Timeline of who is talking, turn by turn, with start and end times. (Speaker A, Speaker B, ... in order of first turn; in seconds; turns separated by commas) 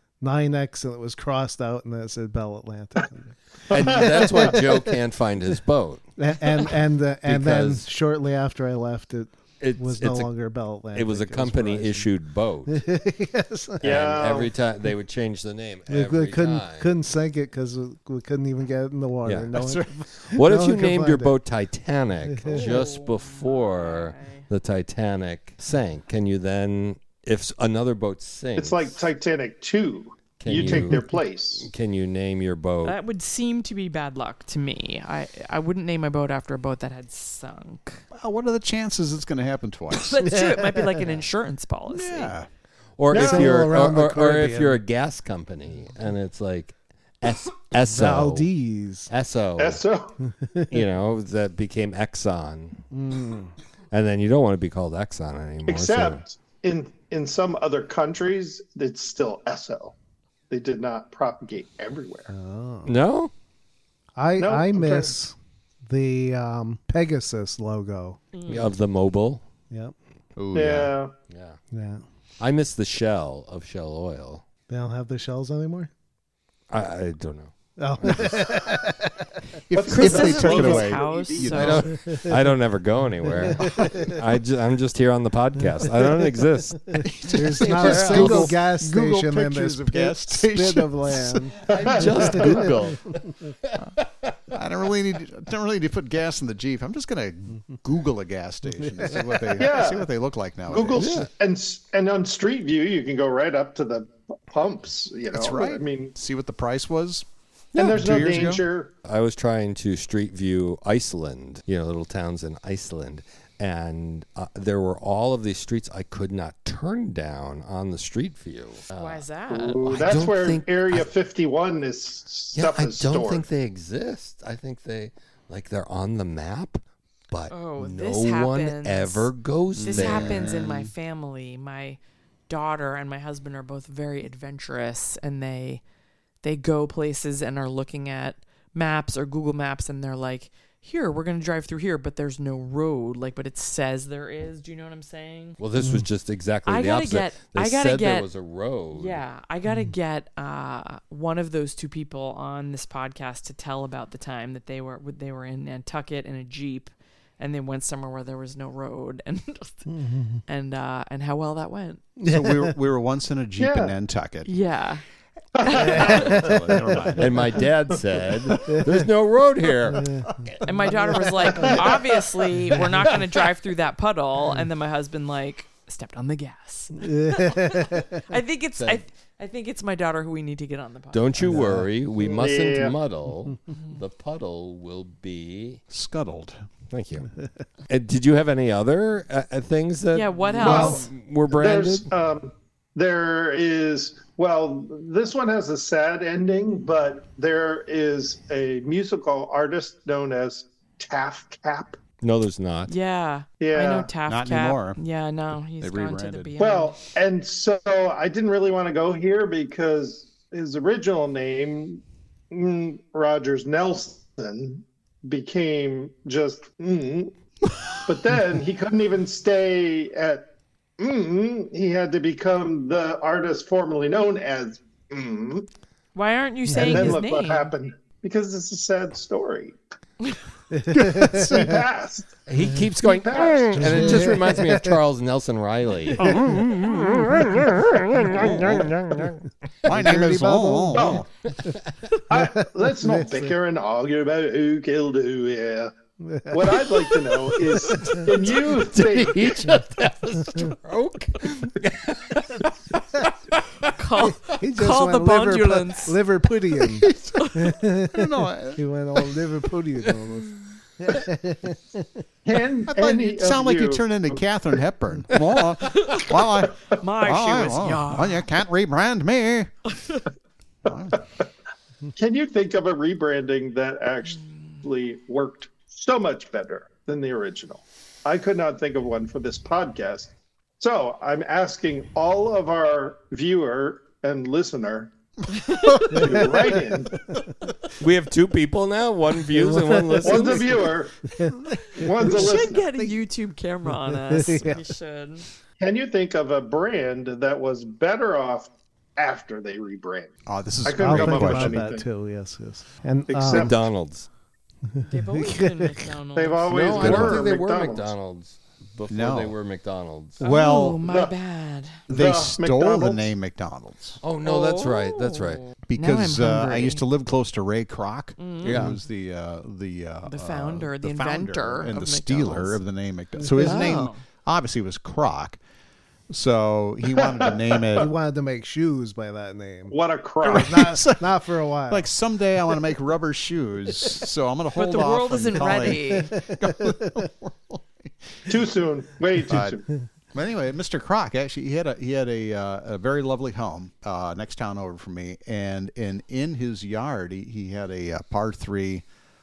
Speaker A: 0.2-4.9, Speaker B: 3.7-6.0, Speaker C: 3.8-4.5, Speaker A: 6.2-12.1, Speaker B: 7.2-7.8, Speaker B: 9.6-10.3, Speaker B: 10.9-12.8, Speaker A: 12.7-13.9, Speaker B: 13.8-16.9, Speaker C: 13.8-14.5, Speaker A: 15.9-21.3, Speaker B: 19.2-19.6, Speaker D: 19.5-19.9, Speaker B: 20.2-29.0, Speaker A: 22.3-22.6, Speaker E: 22.5-24.4, Speaker C: 28.6-31.7, Speaker B: 30.4-31.0, Speaker A: 30.7-31.0, Speaker B: 31.6-33.0, Speaker E: 32.8-38.0, Speaker D: 38.1-40.2, Speaker E: 39.9-42.4, Speaker A: 40.2-41.0, Speaker D: 41.9-42.5, Speaker B: 43.0-48.5, Speaker C: 43.1-43.6, Speaker A: 43.1-44.8, Speaker A: 47.9-49.1, Speaker B: 49.1-49.8, Speaker C: 49.6-50.1, Speaker A: 50.3-50.7, Speaker B: 50.7-52.8, Speaker A: 52.9-53.5, Speaker B: 53.9-56.2, Speaker C: 55.6-59.9, Speaker C: 60.5-62.3, Speaker A: 62.3-62.9, Speaker B: 62.9-63.3, Speaker A: 64.2-68.2, Speaker C: 64.4-65.1, Speaker E: 68.3-68.7, Speaker B: 68.5-69.4, Speaker A: 69.7-69.9, Speaker D: 70.4-70.9, Speaker C: 70.5-71.1, Speaker B: 71.3-71.6, Speaker A: 71.7-72.0, Speaker B: 72.4-74.4, Speaker A: 74.7-75.9, Speaker B: 76.7-78.3, Speaker A: 77.8-79.3, Speaker D: 79.7-81.9, Speaker C: 79.7-81.8, Speaker E: 79.8-81.9, Speaker B: 81.5-88.5, Speaker A: 82.0-82.3, Speaker A: 83.2-84.2, Speaker A: 87.0-92.9, Speaker D: 87.0-91.5, Speaker C: 91.7-92.7, Speaker B: 91.7-94.3, Speaker D: 94.5-101.1, Speaker A: 98.8-99.3, Speaker C: 99.5-100.1, Speaker C: 100.7-106.1, Speaker B: 101.0-101.3, Speaker D: 105.3-108.6, Speaker C: 107.7-108.9, Speaker B: 107.8-108.0, Speaker B: 109.0-119.2, Speaker E: 118.9-120.1, Speaker C: 119.5-123.4, Speaker B: 119.8-121.1, Speaker B: 122.5-130.6, Speaker E: 127.5-135.8, Speaker D: 129.8-130.9, Speaker E: 136.4-145.6, Speaker B: 145.6-149.2, Speaker A: 145.8-146.1, Speaker E: 146.7-148.3, Speaker E: 148.9-159.9, Speaker A: 159.9-160.4, Speaker E: 160.4-162.0, Speaker A: 162.2-162.7, Speaker D: 162.2-164.5, Speaker C: 163.6-163.9, Speaker E: 164.4-165.0, Speaker C: 165.5-166.4, Speaker E: 165.6-166.5, Speaker D: 165.8-167.6, Speaker A: 166.1-166.6, Speaker B: 167.2-170.6, Speaker C: 168.5-168.8, Speaker E: 170.6-181.6, Speaker C: 171.5-172.0, Speaker A: 177.0-178.1, Speaker B: 181.1-185.8, Speaker A: 181.5-181.8, Speaker C: 182.3-183.0, Speaker E: 183.7-184.0, Speaker D: 185.9-186.6, Speaker B: 186.9-187.3, Speaker B: 187.9-192.1, Speaker E: 190.1-191.1, Speaker C: 190.6-202.0, Speaker B: 202.2-202.9, Speaker E: 202.9-207.0, Speaker C: 203.6-204.1, Speaker D: 204.3-205.0, Speaker D: 205.8-206.5, Speaker C: 206.6-217.3, Speaker C: 218.1-220.4, Speaker C: 221.0-225.7, Speaker E: 226.1-227.7, Speaker A: 226.7-227.2, Speaker C: 226.7-229.8, Speaker A: 230.7-231.7, Speaker D: 231.1-231.6, Speaker C: 231.4-232.4, Speaker B: 232.5-239.4, Speaker C: 233.0-234.3, Speaker A: 233.7-234.9, Speaker A: 236.2-239.2, Speaker D: 238.4-238.8, Speaker D: 239.8-241.3, Speaker A: 239.9-241.2, Speaker C: 240.9-241.2, Speaker B: 241.5-242.0, Speaker C: 242.3-245.9, Speaker A: 242.3-243.5, Speaker A: 246.2-246.9, Speaker C: 246.5-249.6, Speaker B: 247.6-253.9, Speaker E: 253.9-256.2, Speaker A: 254.2-262.2, Speaker B: 256.9-257.3, Speaker E: 257.3-257.7, Speaker D: 258.1-258.8, Speaker C: 262.4-264.4, Speaker D: 262.9-269.7, Speaker E: 265.9-266.3, Speaker E: 266.9-268.5, Speaker E: 269.9-270.2, Speaker D: 270.8-271.2, Speaker C: 272.1-285.1, Speaker E: 285.5-286.1, Speaker D: 285.8-286.3, Speaker C: 286.1-287.2, Speaker A: 286.1-286.8, Speaker B: 288.0-290.9, Speaker A: 289.5-290.5, Speaker C: 290.2-291.2, Speaker A: 291.3-292.1, Speaker C: 291.9-292.9, Speaker E: 292.2-295.4, Speaker A: 294.1-294.8, Speaker C: 295.8-300.3, Speaker D: 300.5-301.8, Speaker C: 300.8-302.0, Speaker A: 300.9-303.7, Speaker C: 303.3-303.8, Speaker B: 303.5-304.3, Speaker A: 304.9-306.1, Speaker E: 305.0-307.4, Speaker C: 306.4-308.1, Speaker B: 306.7-310.4, Speaker D: 307.0-307.3, Speaker D: 309.1-309.6, Speaker D: 310.4-311.0, Speaker E: 310.4-312.0, Speaker C: 311.0-311.3, Speaker C: 312.1-313.3, Speaker D: 312.1-314.2, Speaker B: 314.2-315.6, Speaker E: 314.4-317.0, Speaker D: 315.9-325.6, Speaker E: 318.4-318.9, Speaker B: 318.6-319.0, Speaker E: 320.3-322.8, Speaker A: 323.5-324.0, Speaker E: 323.5-324.2, Speaker D: 326.3-328.1, Speaker C: 327.2-328.1, Speaker A: 328.0-332.1, Speaker C: 329.9-330.8, Speaker D: 330.4-331.3, Speaker D: 331.9-338.5, Speaker E: 334.7-336.3, Speaker A: 336.1-337.1, Speaker C: 338.5-339.9, Speaker D: 339.4-339.8, Speaker D: 340.3-349.0